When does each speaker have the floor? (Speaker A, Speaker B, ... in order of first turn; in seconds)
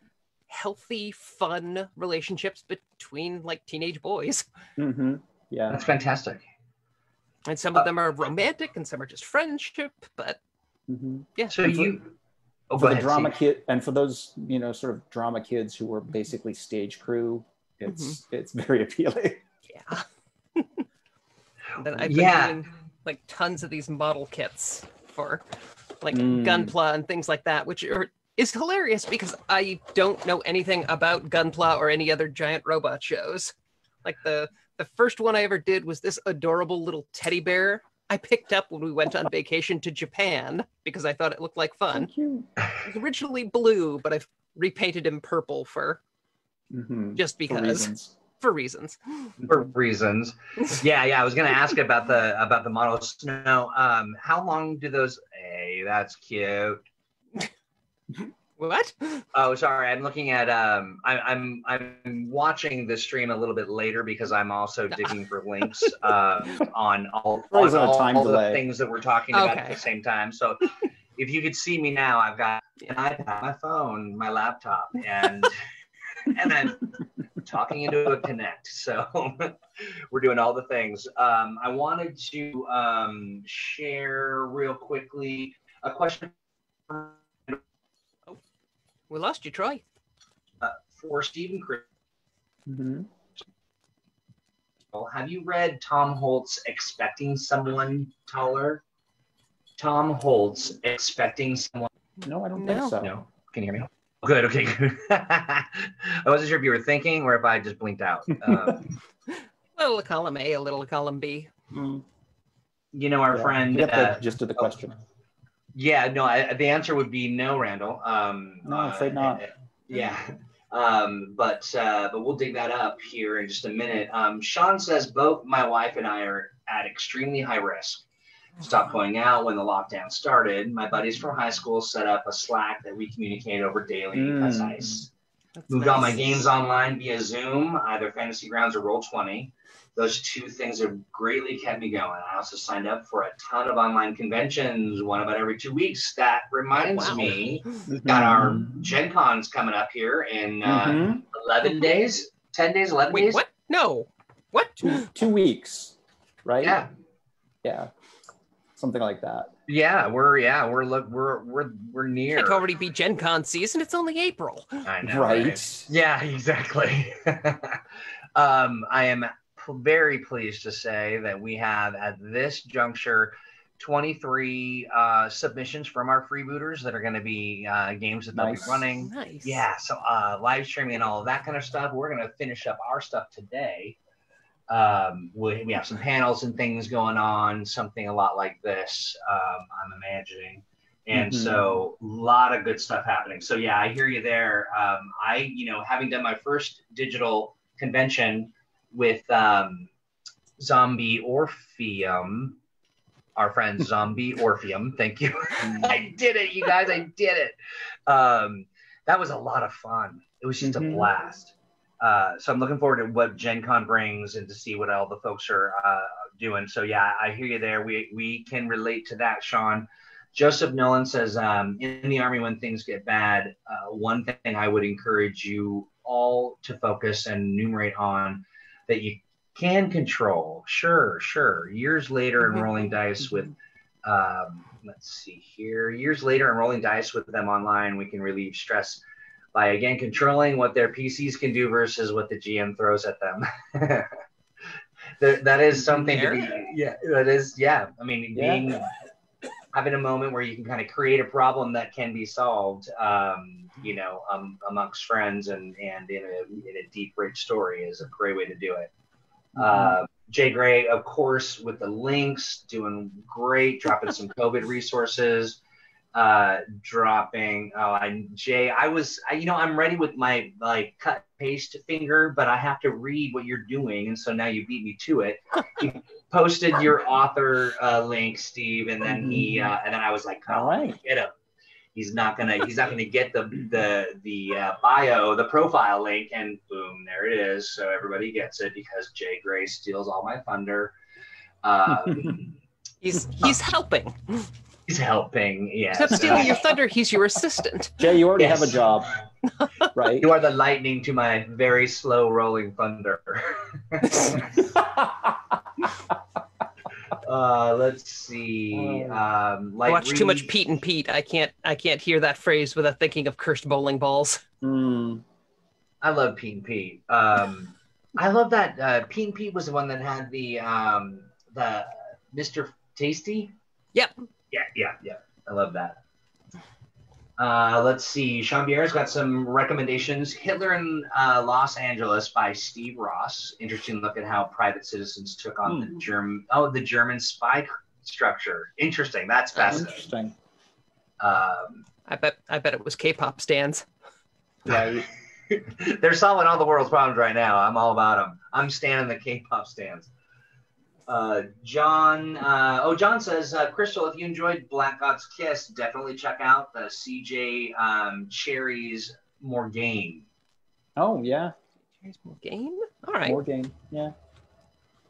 Speaker A: 0.5-4.5, 7.5-10.4, 17.9-18.2, 19.7-20.1, 20.6-20.9, 21.8-25.4, 26.0-42.1, 42.8-46.0, 47.2-49.4, 58.6-59.2, 69.3-69.8, 89.1-89.8, 102.6-103.0, 109.3-111.5, 135.6-136.4, 146.8-147.8, 153.1-155.1, 162.3-164.8, 179.0-179.6, 245.8-246.5, 293.0-294.5, 295.9-298.1, 304.1-304.4, 309.9-314.4, 339.6-339.9, 342.1-343.9, 362.0-363.4
Speaker B: 4.8-5.8, 10.9-12.0, 12.8-19.4, 26.1-26.7, 41.9-42.5, 46.7-48.1, 67.5-68.6, 92.7-93.1, 102.2-103.1, 108.4-108.8, 111.7-112.0, 113.3-115.0, 118.7-119.4, 134.1-135.0, 147.9-148.8, 150.6-151.2, 154.8-156.8, 157.6-157.9, 158.8-159.5, 165.0-165.9, 178.3-178.9, 191.1-191.7, 205.6-206.0, 210.6-211.1, 248.3-248.6, 259.6-260.0, 279.1-279.7, 280.5-281.0, 291.9-292.4, 296.1-296.7, 298.0-299.1, 299.9-300.3, 304.6-305.9, 308.7-309.2, 314.6-315.2, 335.6-336.0, 339.7-340.4, 344.6-345.1, 361.0-361.5, 363.2-364.1
Speaker C: 5.7-6.4, 11.5-12.1, 12.7-13.4, 22.0-22.6, 49.4-56.8, 59.3-75.6, 76.2-79.6, 80.1-86.3, 86.9-87.6, 90.6-91.8, 94.9-98.8, 99.8-101.9, 103.0-108.9, 112.9-114.8, 115.8-128.0, 128.6-135.1, 135.7-153.4, 156.6-156.9, 159.7-162.7, 164.8-167.8, 168.4-184.0, 184.7-199.9, 200.6-202.6, 203.4-207.6, 208.1-239.0, 239.5-244.1, 245.2-248.9, 249.7-258.9, 259.6-265.6, 266.1-281.3, 281.9-290.9, 291.6-292.5, 294.9-296.6, 298.4-298.8, 300.2-304.7, 307.1-310.6, 316.0-323.5, 324.5-326.0, 327.4-340.1, 341.2-341.8, 344.7-350.1, 351.1-360.3